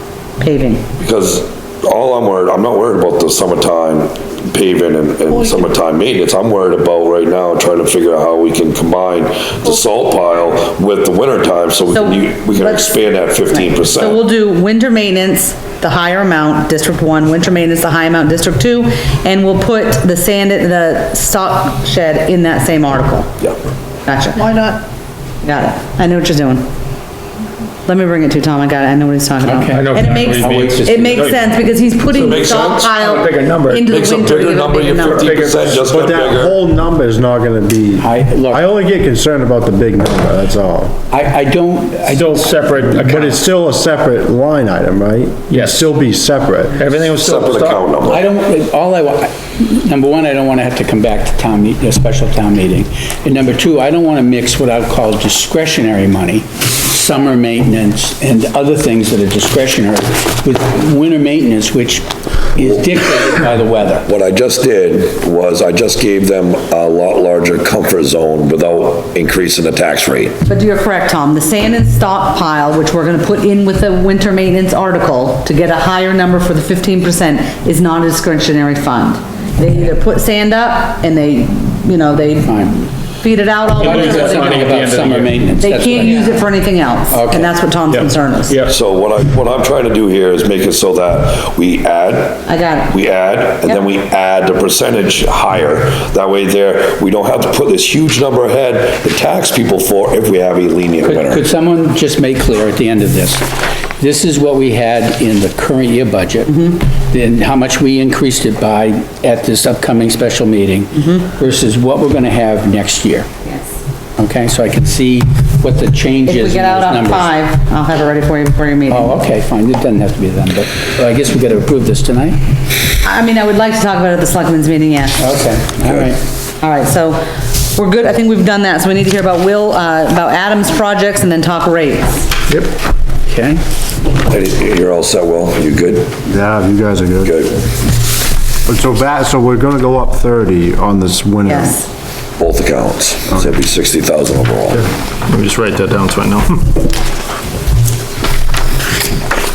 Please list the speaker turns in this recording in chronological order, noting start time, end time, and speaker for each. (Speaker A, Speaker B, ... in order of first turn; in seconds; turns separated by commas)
Speaker A: 0.4-0.9, Speaker B: 1.0-14.2, Speaker A: 11.9-23.4, Speaker A: 24.1-24.9, Speaker A: 25.4-26.7, Speaker A: 27.9-35.3, Speaker C: 29.4-31.3, Speaker D: 29.6-31.5, Speaker D: 32.0-33.9, Speaker B: 32.2-32.9, Speaker B: 33.9-36.6, Speaker D: 35.1-35.9, Speaker E: 35.8-40.9, Speaker C: 38.0-38.7, Speaker C: 41.1-42.6, Speaker D: 42.1-43.4, Speaker E: 42.9-46.8, Speaker D: 45.5-45.9, Speaker D: 46.8-47.9, Speaker B: 47.1-48.2, Speaker C: 48.1-64.1, Speaker B: 62.6-62.9, Speaker B: 64.0-70.4, Speaker A: 70.5-84.8, Speaker C: 82.4-82.9, Speaker D: 83.8-85.5, Speaker C: 83.8-86.5, Speaker A: 85.6-88.6, Speaker C: 87.1-87.5, Speaker D: 87.9-88.7, Speaker B: 88.7-101.4, Speaker A: 92.5-93.0, Speaker C: 101.1-113.3, Speaker A: 106.5-106.8, Speaker A: 111.0-111.3, Speaker C: 114.2-117.3, Speaker A: 116.3-119.2, Speaker C: 118.9-122.4, Speaker A: 123.0-125.2, Speaker C: 125.2-126.2, Speaker A: 126.6-132.3, Speaker C: 132.5-133.6, Speaker B: 134.2-136.2, Speaker E: 136.3-137.3, Speaker B: 137.2-137.7, Speaker E: 138.7-141.8, Speaker A: 141.5-141.9, Speaker B: 142.4-144.9, Speaker D: 145.3-146.7